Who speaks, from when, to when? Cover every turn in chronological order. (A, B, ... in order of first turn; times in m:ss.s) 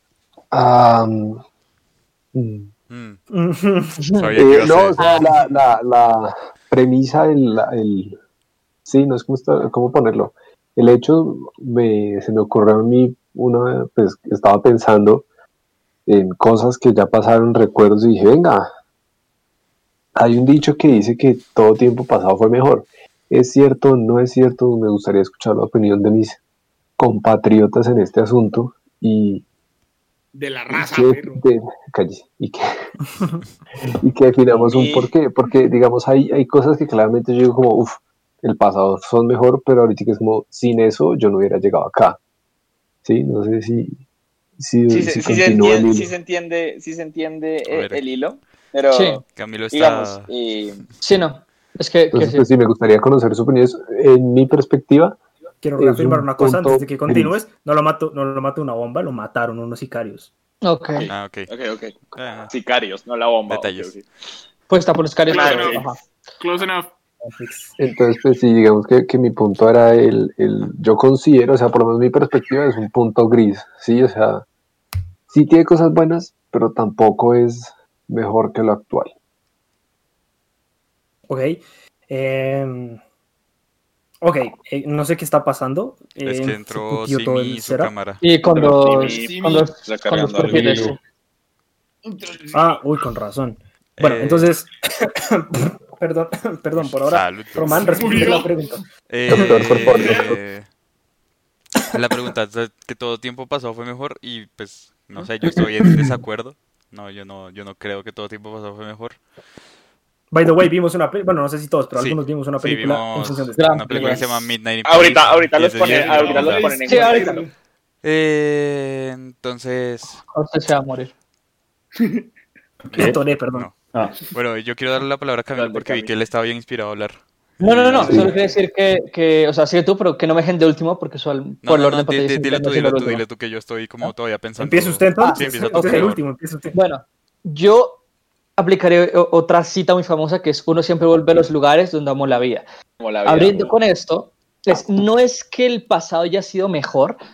0:00.5-0:01.4 A
0:02.3-0:02.7 A
0:02.9-0:03.2 B
0:03.3-0:04.0 C
0:04.0-0:04.3 D
0:04.1-0:05.2 B
0:04.4-0:08.2 A
0:08.8-0:15.2 A
0:16.0-0:18.7 A
0:20.2-0:26.4 A
0:27.0-0:29.4 A
0:30.3-0:31.4 E
0:30.7-0:32.8 A
0:33.1-0:33.4 C
0:33.9-0:42.2 A
0:34.5-0:35.1 F
0:43.0-0:44.0 A
0:44.6-0:46.1 A
0:44.9-0:50.8 F
0:47.7-0:48.0 B
0:48.9-0:49.2 D
0:49.3-0:50.3 B
0:51.0-0:52.5 D
0:52.1-0:55.2 A
0:55.6-1:00.3 C
0:55.8-0:57.3 A
1:00.6-1:01.1 D
1:01.0-1:04.1 F
1:01.1-1:01.5 B
1:02.1-1:02.5 B
1:03.5-1:03.9 B
1:04.7-1:05.8 D
1:05.3-1:06.9 E
1:05.3-1:05.9 F
1:05.5-1:06.0 C
1:07.2-1:07.7 C
1:07.8-1:14.4 A
1:15.3-1:19.1 A
1:21.3-1:23.0 C
1:24.2-1:27.9 C
1:26.2-1:28.2 B
1:28.2-1:31.0 D
1:28.5-1:30.9 F
1:28.8-1:29.7 E
1:32.0-1:32.8 E
1:32.5-1:38.8 C
1:34.0-1:34.6 B
1:36.7-1:38.3 B
1:37.6-1:40.4 E
1:39.1-1:40.7 B
1:39.3-1:40.4 A
1:41.9-1:49.2 B
1:50.3-1:54.2 C
1:51.9-1:56.7 B
1:53.6-1:54.2 D
1:53.9-1:54.3 E
1:54.8-1:57.4 F
1:55.8-1:57.5 E
1:56.9-1:57.4 D
1:58.0-2:00.2 B
2:00.3-2:01.1 D
2:02.9-2:03.7 C
2:04.3-2:08.2 B
2:05.5-2:06.1 F
2:07.6-2:13.2 D
2:08.0-2:08.6 E
2:11.6-2:16.2 B
2:14.6-2:16.7 C
2:15.2-2:16.1 D
2:16.7-2:18.0 D
2:18.6-2:22.6 D
2:23.0-2:23.7 F
2:23.2-2:27.2 D